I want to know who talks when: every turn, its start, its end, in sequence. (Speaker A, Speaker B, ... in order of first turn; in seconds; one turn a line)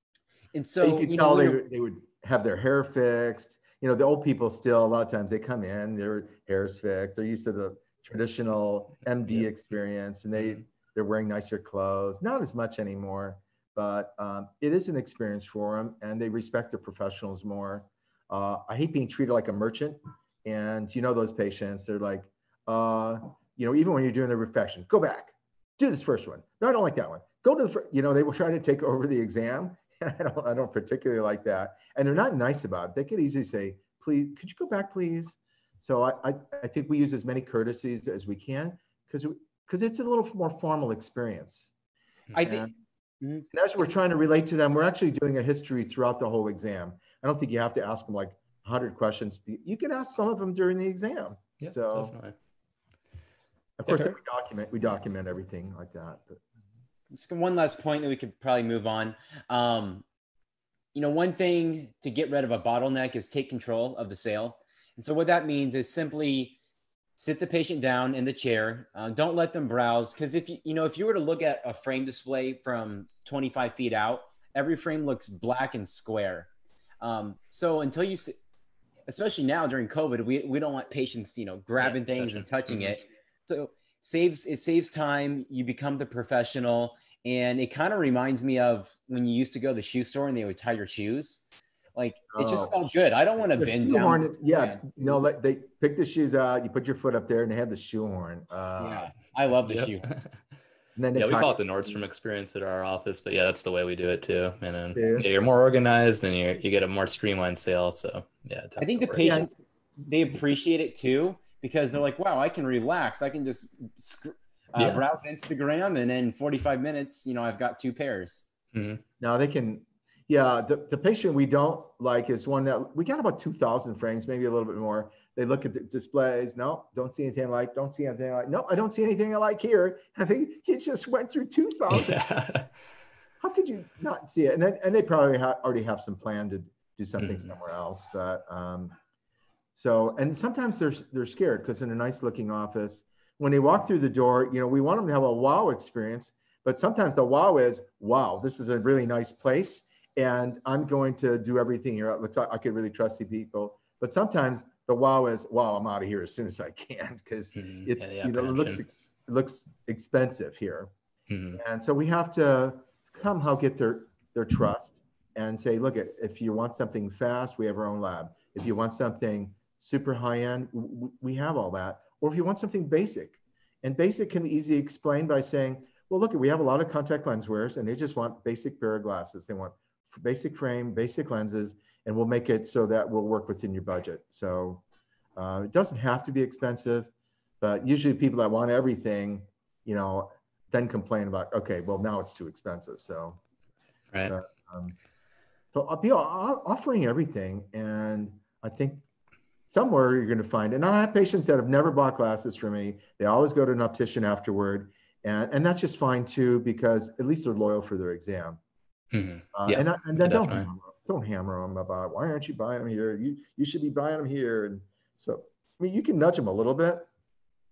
Speaker A: 0.5-1.6
Speaker B: 0.8-41.7
Speaker C: 42.3-42.6
Speaker A: 42.3-42.7
Speaker B: 43.5-52.1
Speaker C: 51.6-52.3
Speaker B: 53.8-56.4
Speaker A: 57.1-60.0
Speaker A: 60.9-66.6
Speaker A: 67.2-76.5
Speaker A: 77.0-78.3
Speaker A: 79.1-95.3
Speaker C: 81.8-83.0
Speaker B: 92.3-92.8
Speaker B: 93.6-99.1
Speaker A: 98.8-100.1
Speaker C: 99.6-100.2
Speaker B: 101.0-102.0
Speaker C: 101.1-109.3
Speaker B: 104.9-105.3
Speaker A: 108.8-118.5
Speaker B: 109.2-109.5
Speaker C: 114.8-115.0
Speaker C: 118.7-119.0
Speaker B: 119.2-132.2
Speaker C: 131.9-132.7
Speaker B: 133.4-138.9
Speaker C: 137.2-137.5
Speaker B: 139.7-160.9
Speaker C: 157.6-158.8
Speaker C: 161.3-161.6
Speaker B: 161.5-184.8
Speaker B: 185.3-187.1
Speaker B: 187.6-193.4
Speaker B: 194.3-194.9
Speaker B: 195.7-199.0
Speaker B: 199.7-208.6
Speaker C: 209.1-210.7
Speaker B: 209.5-217.1